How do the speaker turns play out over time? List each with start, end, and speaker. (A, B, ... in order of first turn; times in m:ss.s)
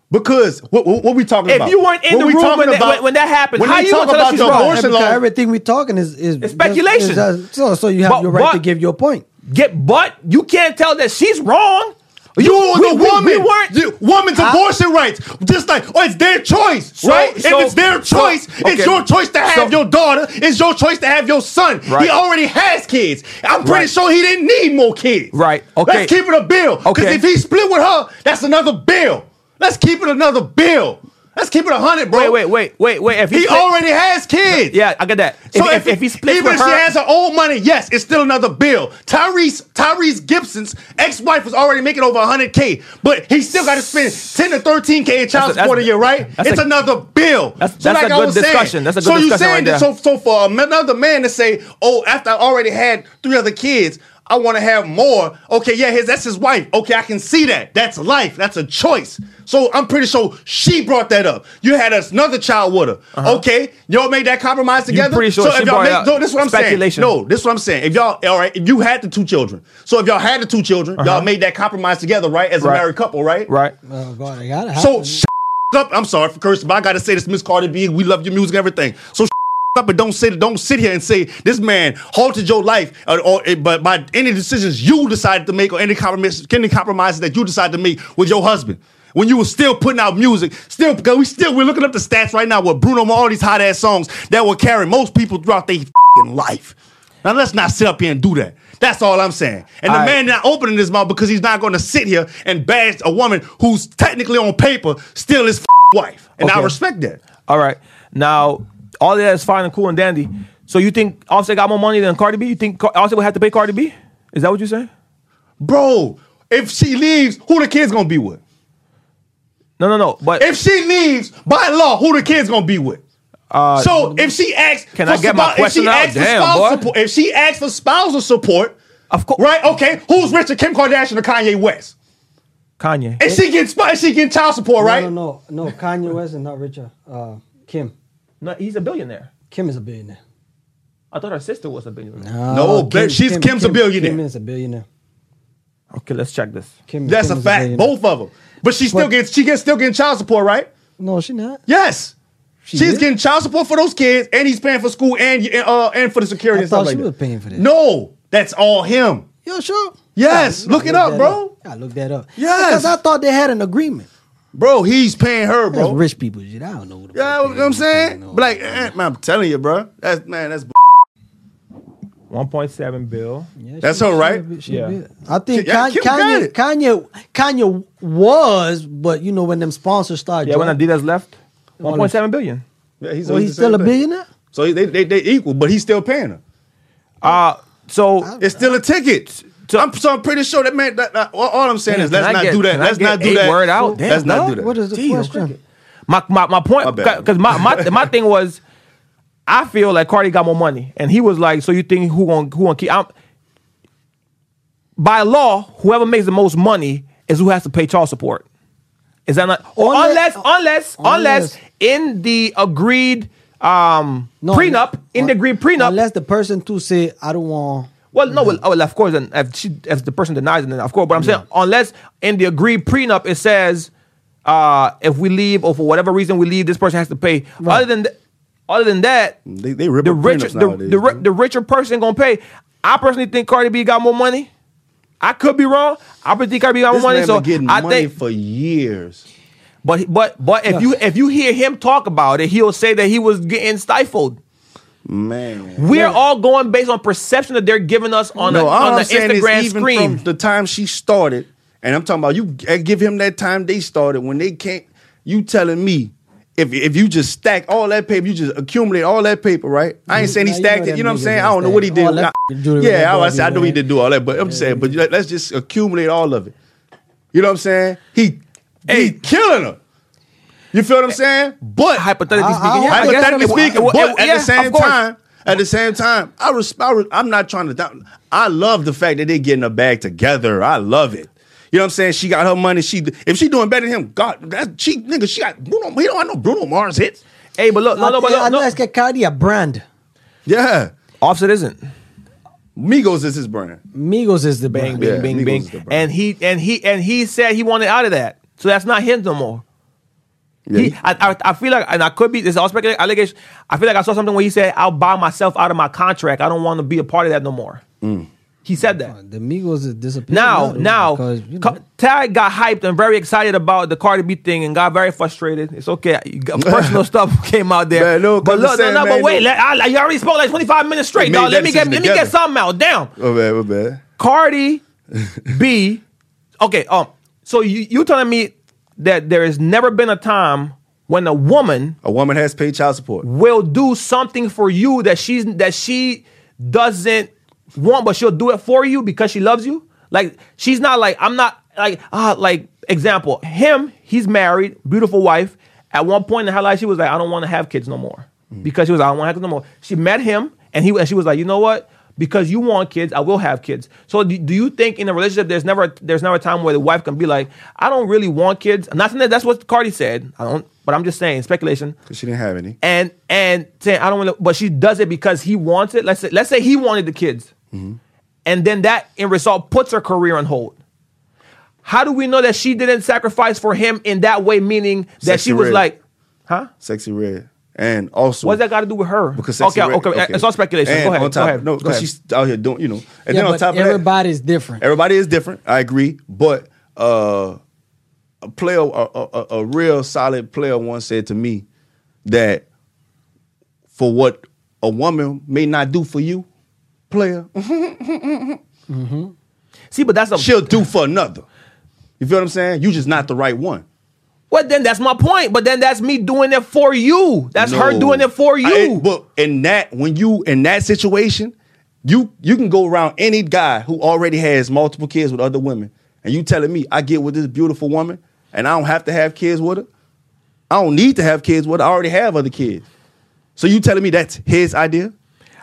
0:00.1-0:03.0 A
0:01.5-0:04.8 B
0:03.6-0:05.2 A
0:04.4-0:09.2 C
0:06.4-0:07.3 B
0:08.0-0:08.6 B
0:09.5-0:13.7 B
0:12.4-0:32.4 A
0:17.0-0:19.8 B
0:21.8-0:22.1 B
0:23.6-0:23.9 B
0:25.3-0:26.1 B
0:26.8-0:27.2 B
0:32.1-0:33.7 B
0:33.3-0:34.8 A
0:34.5-0:36.8 B
0:35.5-1:13.5 A
0:45.3-0:46.6 B
0:47.6-0:49.8 B
1:03.1-1:03.4 B
1:04.9-1:07.1 B
1:11.0-1:11.3 B
1:13.5-1:13.7 B
1:13.9-1:15.2 C
1:14.8-1:47.2 A
1:39.9-1:40.2 B
1:46.4-1:46.7 B
1:47.5-1:54.9 B
1:55.6-1:58.4 A
1:59.8-2:00.5 B
2:00.4-2:03.0 A
2:03.5-2:04.1 B
2:03.8-2:08.8 A
2:04.9-2:06.9 B
2:09.1-2:09.4 B
2:09.4-2:11.9 A
2:12.8-2:13.2 B
2:13.2-2:15.1 A
2:14.8-2:17.9 C
2:18.4-2:19.3 B
2:19.5-2:20.2 C
2:21.1-2:22.3 B
2:22.2-2:24.8 C
2:22.5-2:24.2 A
2:25.9-2:26.7 B
2:26.9-2:27.9 C
2:27.0-2:30.7 A
2:31.0-2:31.6 C
2:31.7-2:32.1 A
2:32.6-2:33.0 C
2:32.7-2:39.2 A
2:36.5-2:37.6 C
2:39.4-2:44.1 C
2:40.2-2:41.5 A
2:42.4-2:43.0 A
2:44.5-2:46.0 A
2:45.7-2:48.9 C
2:47.1-2:51.0 A
2:52.3-2:53.5 B
2:53.6-3:00.8 C
2:53.8-2:54.4 A
2:54.7-2:55.0 B
2:55.5-2:56.5 A
3:00.4-3:02.6 B
3:01.8-3:02.2 C
3:03.0-3:03.9 A
3:03.2-3:04.2 C
3:04.5-3:06.4 A
3:07.2-3:08.3 B
3:08.2-3:08.6 C
3:08.4-3:14.7 A
3:09.4-3:09.8 B
3:11.9-3:18.6 B
3:13.8-3:15.5 C
3:16.8-3:18.1 A
3:19.5-3:23.1 B
3:25.0-3:28.4 B
3:29.3-3:36.0 B
3:29.8-3:30.4 C
3:31.0-3:31.5 C
3:34.4-3:38.6 C
3:38.1-3:43.9 B
3:41.2-3:41.4 C
3:44.4-3:48.1 B
3:48.7-3:49.4 B
3:49.4-3:51.2 A
3:50.0-3:54.5 B
3:55.2-3:58.1 B
3:56.9-3:59.2 A
3:59.8-4:04.4 B
4:05.0-4:06.0 A
4:05.8-4:10.2 B
4:08.5-4:26.5 A
4:20.1-4:23.8 C
4:24.4-4:24.9 C
4:27.3-4:29.8 A
4:28.9-4:29.2 B
4:30.7-4:32.1 A
4:32.0-4:35.0 B
4:32.3-4:33.3 C
4:32.9-4:47.2 A
4:47.6-4:48.7 B
4:48.0-4:49.8 C
4:50.4-4:50.9 A
4:51.2-4:51.8 B
4:52.8-4:53.8 A
4:53.9-4:55.3 C
4:54.7-4:59.6 B
4:55.0-4:56.1 A
5:00.6-5:01.0 A
5:00.7-5:07.8 B
5:08.0-5:08.3 A
5:08.6-5:09.1 B
5:09.0-5:11.8 C
5:10.3-5:23.1 B
5:16.6-5:17.0 A
5:17.9-5:19.4 A
5:21.2-5:22.3 A
5:23.2-5:24.0 A
5:24.2-5:24.8 B
5:25.2-5:25.5 A
5:25.5-5:26.0 B
5:26.6-5:32.0 B
5:32.0-5:33.2 A
5:33.2-6:02.0 B
6:02.1-6:02.8 A
6:02.8-6:07.5 B
6:07.7-6:08.0 A
6:08.4-6:10.8 B
6:11.8-6:16.0 B
6:15.2-6:15.8 A
6:16.8-6:18.6 A
6:18.4-6:22.1 B
6:19.3-6:24.0 A
6:23.3-6:24.8 C
6:24.8-6:27.6 A
6:28.4-6:31.6 A
6:32.2-6:32.6 A
6:33.9-6:36.4 A
6:37.1-6:38.6 A
6:38.9-6:39.3 C
6:39.9-6:40.8 B
6:40.4-6:41.4 A
6:42.2-6:43.8 A
6:44.5-6:49.0 B
6:47.6-6:59.9 A
7:00.7-7:02.8 A
7:03.6-7:05.1 A